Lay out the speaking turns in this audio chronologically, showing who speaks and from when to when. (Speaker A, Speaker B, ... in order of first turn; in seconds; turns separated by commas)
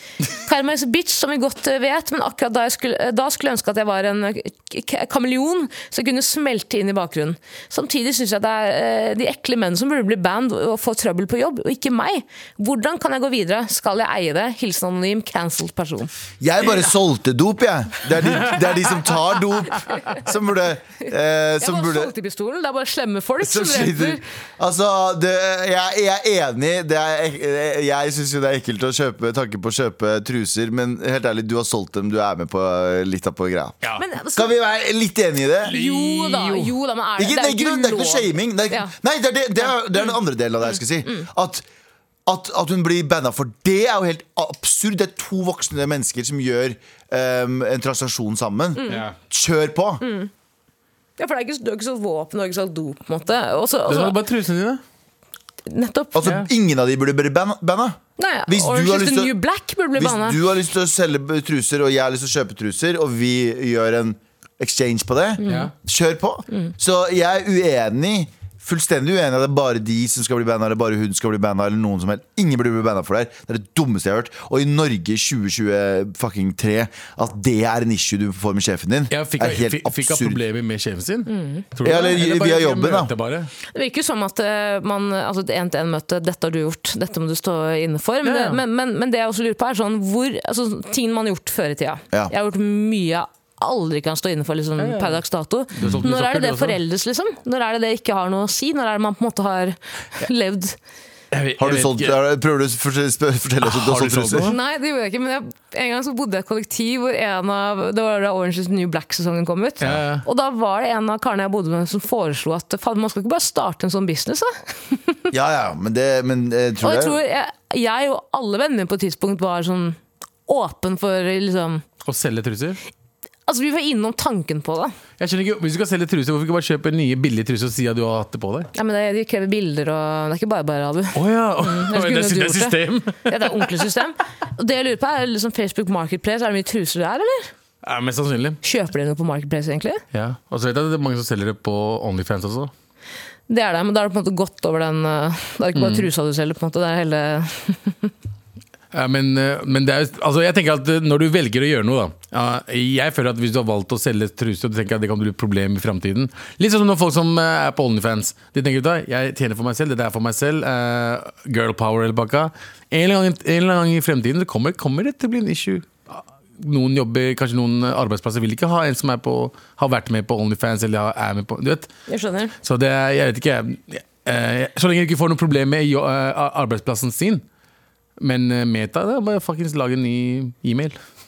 Speaker A: 0.3-16.1, Speaker B: 16.4-22.1, Speaker A: 21.6-24.2, Speaker B: 23.4-35.7, Speaker A: 34.0-34.5, Speaker C: 35.6-36.8, Speaker A: 35.7-38.9, Speaker B: 37.2-41.6, Speaker B: 42.2-50.0, Speaker A: 48.7-49.0, Speaker C: 48.9-49.1, Speaker A: 50.0-50.3, Speaker A: 51.2-54.2, Speaker C: 53.9-54.8, Speaker A: 55.6-56.4, Speaker B: 56.1-59.3, Speaker A: 58.2-60.4, Speaker B: 59.9-80.4, Speaker A: 65.4-65.7, Speaker C: 65.5-65.7, Speaker C: 79.1-83.5, Speaker A: 81.3-81.6, Speaker B: 81.8-83.1, Speaker A: 83.7-100.8, Speaker C: 88.2-88.6, Speaker C: 94.8-95.2, Speaker C: 95.8-96.8, Speaker C: 101.3-102.2, Speaker B: 101.6-104.5, Speaker C: 103.6-104.5, Speaker A: 104.5-115.2, Speaker C: 109.8-110.2, Speaker B: 115.3-117.2, Speaker A: 116.8-121.8, Speaker C: 122.0-122.8, Speaker A: 123.5-124.9, Speaker C: 125.2-128.7, Speaker A: 128.7-137.5, Speaker C: 131.1-133.8, Speaker C: 137.8-138.6, Speaker A: 138.6-140.0, Speaker C: 140.1-142.7, Speaker A: 143.5-148.1, Speaker C: 145.8-146.1, Speaker C: 148.9-171.9, Speaker A: 172.1-172.5, Speaker C: 172.6-177.4, Speaker C: 178.2-181.0